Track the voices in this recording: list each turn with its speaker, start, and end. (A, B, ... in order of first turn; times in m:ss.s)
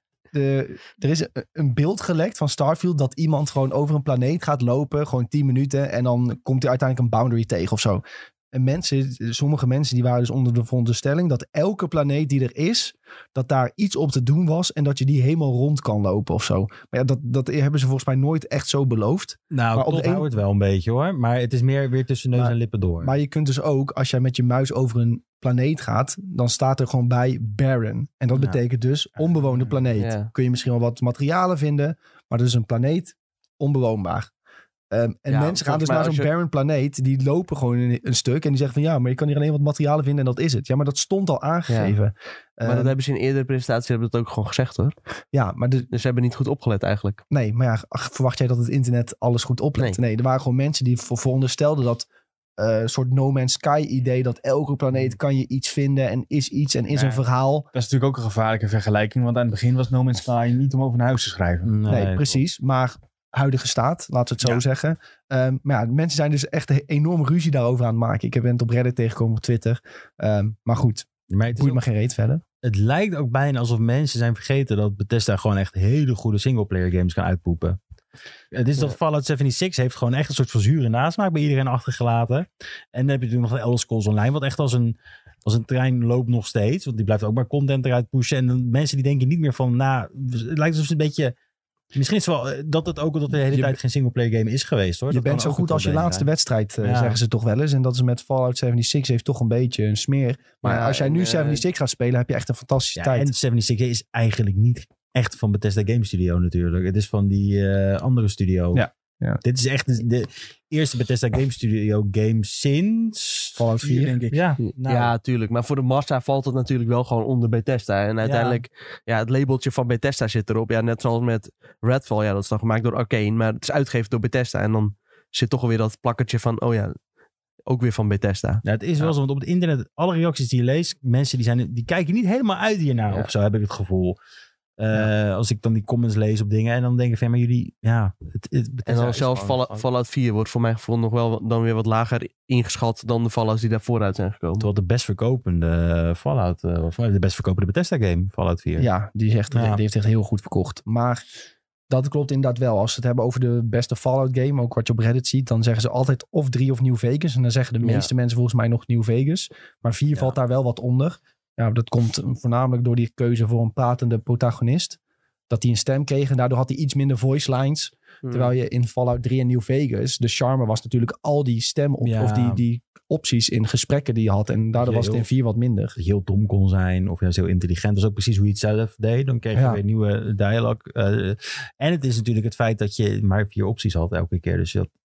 0:00.3-0:20.3 A
0:19.5-0:23.1 B
0:22.4-0:34.3 A
0:28.3-0:28.6 B
0:29.2-0:29.8 C
0:30.0-0:30.3 D
0:34.9-0:42.9 A
0:35.3-0:36.3 D
0:41.7-0:41.9 D
0:42.6-0:44.9 D
0:45.3-0:45.9 A
0:45.9-0:47.2 D
0:47.3-0:52.0 A
0:52.6-0:57.7 A
0:56.9-1:01.7 C
1:01.6-1:02.4 B
1:01.9-1:12.4 A
1:11.3-1:11.8 B
1:12.6-1:17.8 B
1:18.5-1:31.3 B
1:31.9-1:36.3 B
1:33.5-1:33.8 A
1:35.1-1:43.3 A
1:36.8-1:37.2 B
1:40.6-1:41.6 D
1:43.0-1:48.9 B
1:49.4-1:53.6 B
1:53.5-1:54.2 A
1:53.8-1:54.4 C
1:54.3-1:55.1 B
1:54.6-2:07.0 D
1:58.2-1:58.6 B
2:07.7-2:08.6 D
2:08.6-2:14.2 B
2:14.8-2:19.8 B
2:18.9-2:24.7 D
2:24.6-2:28.9 B
2:28.8-2:31.2 A
2:29.5-2:29.8 B
2:31.9-2:45.0 A
2:37.8-2:38.1 D
2:45.5-2:56.0 A
2:48.2-2:48.5 D
2:52.0-2:52.6 B
2:54.7-2:55.3 B
2:56.0-3:04.9 B
2:59.5-2:59.8 A